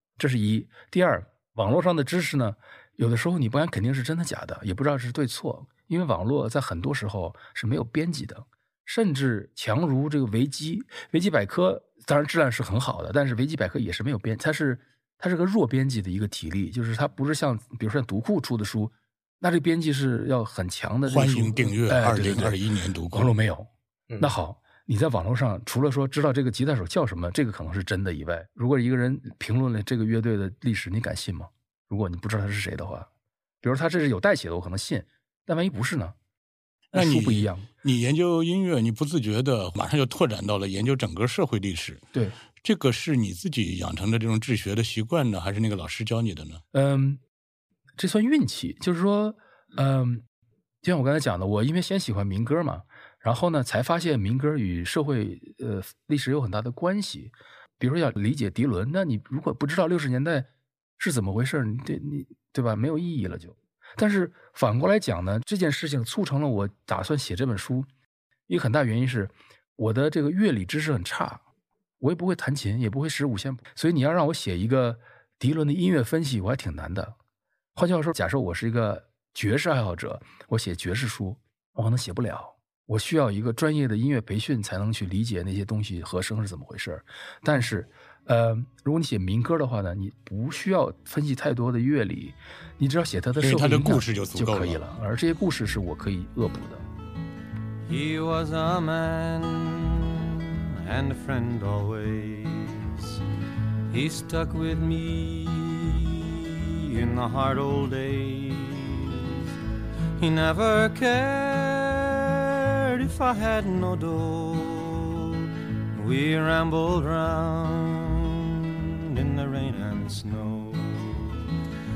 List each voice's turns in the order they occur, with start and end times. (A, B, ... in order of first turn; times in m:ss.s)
0:00.2-0:22.6 A
0:21.1-0:23.3 B
0:23.1-0:23.7 A
0:24.2-0:33.1 A
0:33.6-0:36.2 A
0:36.9-0:37.7 A
0:36.9-0:42.0 B
0:42.6-0:46.6 B
0:46.7-0:47.2 A
0:48.0-0:50.2 A
0:50.8-1:00.5 A
1:01.0-1:07.9 A
1:08.5-1:11.4 A
1:12.0-1:17.1 A
1:17.7-1:36.8 A
1:33.4-1:34.8 B
1:37.9-1:43.2 C
1:43.9-1:49.4 C
1:50.2-2:01.4 C